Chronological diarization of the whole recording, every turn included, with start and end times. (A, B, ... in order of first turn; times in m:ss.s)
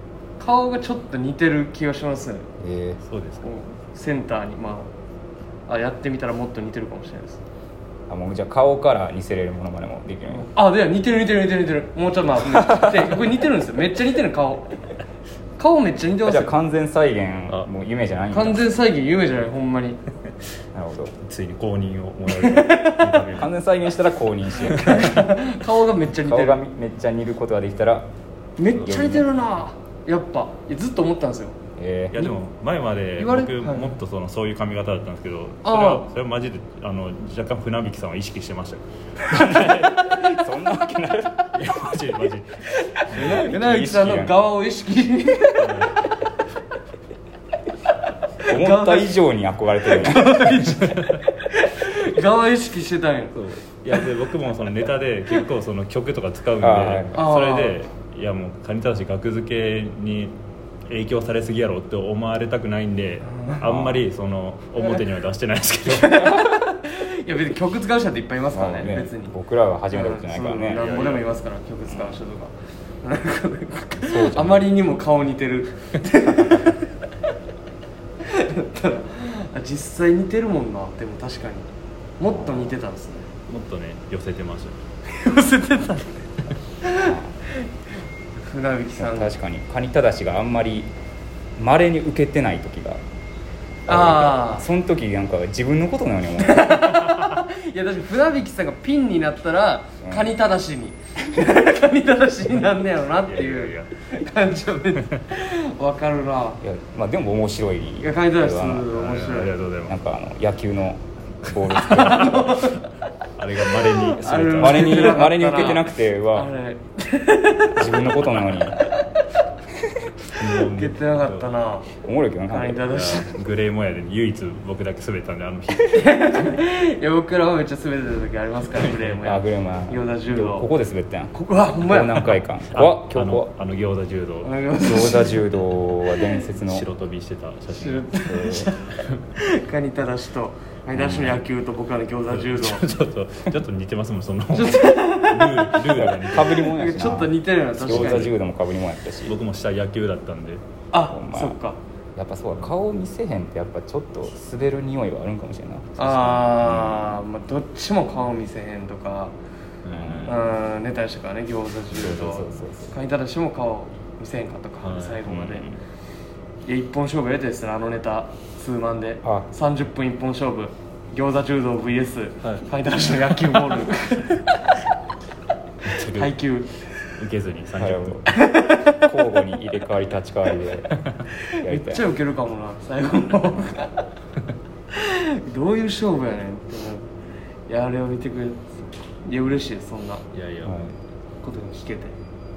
0:00.4-0:02.5 A
0:02.6-0:03.0 B
0:03.0-0:03.5 C
0:03.4-0:04.9 A
0:05.7-0:07.4 A
0:08.1-0:10.5 B
0:10.3-0:14.8 A
0:12.4-0:13.1 B
0:15.6-0:16.5 A
0:16.2-0:18.6 B
0:18.3-0:20.0 A
0:20.7-0:21.1 B
0:21.2-0:23.5 C
0:22.3-0:23.2 A
0:23.3-0:25.3 B
0:24.6-0:26.6 A
0:26.2-0:28.1 B
0:28.6-0:31.6 A
0:28.7-0:29.2 B
0:31.8-0:32.3 B
0:32.1-0:38.8 C
0:33.2-0:34.0 A
0:35.6-0:36.1 A
0:39.2-0:41.5 B
0:41.5-0:42.5 C
0:42.8-0:45.9 A
0:43.1-0:43.4 C
0:43.1-0:44.4 B
0:45.5-0:46.0 C
0:48.4-0:49.1 A
0:48.5-0:50.6 B
0:49.9-0:53.3 A
0:50.8-0:51.2 C
0:53.3-1:00.3 C
0:56.6-0:57.2 B
0:57.1-0:57.8 A
1:00.9-1:06.4 C
1:03.2-1:03.6 A
1:03.6-1:04.0 B
1:05.9-1:09.3 A
1:08.5-1:10.8 B
1:09.9-1:17.0 A
1:10.7-1:11.3 C
1:11.9-1:12.2 B
1:14.0-1:14.7 B
1:18.2-1:23.3 A
1:22.2-1:22.8 B
1:23.5-1:24.8 C
1:25.1-1:26.2 A
1:26.8-1:27.1 A
1:26.9-1:27.3 B
1:28.4-1:29.4 A
1:28.9-1:30.9 B
1:31.6-1:33.0 B
1:33.8-1:36.9 B
1:33.9-1:34.6 A
1:36.4-1:46.6 A
1:40.0-1:40.3 B
1:43.2-1:43.9 C
1:46.6-1:48.9 B
1:48.0-1:49.6 A
1:48.9-1:49.9 C
1:49.9-1:52.4 B
1:51.5-1:52.8 C
1:51.9-1:52.9 A
1:53.4-1:55.2 C
1:53.9-1:58.0 A
1:54.3-1:56.5 B
1:57.7-1:58.8 B
1:58.6-1:58.9 A
1:59.8-2:00.1 B
2:00.3-2:01.6 C
2:00.5-2:01.9 A
2:01.9-2:02.8 B
2:02.5-2:03.3 A
2:02.8-2:06.5 C
2:05.8-2:10.7 A
2:08.8-2:09.2 C
2:09.2-2:13.5 B
2:11.3-2:12.4 A
2:12.7-2:14.5 C
2:14.4-2:15.4 A
2:14.8-2:16.8 B
2:16.6-2:18.1 C
2:17.7-2:22.8 A
2:18.2-2:18.7 B
2:20.9-2:21.4 C
2:22.3-2:26.8 C
2:24.5-2:25.8 A
2:25.8-2:29.4 B
2:26.6-2:28.3 A
2:27.8-2:28.4 C
2:29.2-2:30.6 C
2:30.9-2:31.8 A
2:31.1-2:31.6 B
2:32.2-2:37.1 B
2:36.0-2:39.3 A
2:39.8-2:40.4 C
2:39.9-2:40.4 B
2:40.2-2:45.7 A
2:41.9-2:42.9 B
2:44.8-2:45.2 C
2:45.2-2:45.8 B
2:46.6-2:54.6 A
2:52.4-2:52.7 C
2:55.8-2:56.4 C
2:56.1-2:56.9 A
2:57.2-2:58.3 C
2:57.8-2:58.3 B
2:58.3-2:59.0 A
2:59.0-3:00.9 B
3:01.4-3:04.1 A
3:01.6-3:02.0 B
3:04.9-3:07.1 A
3:07.7-3:10.2 A
3:10.3-3:10.9 C
3:10.6-3:10.9 B
3:11.4-3:12.2 A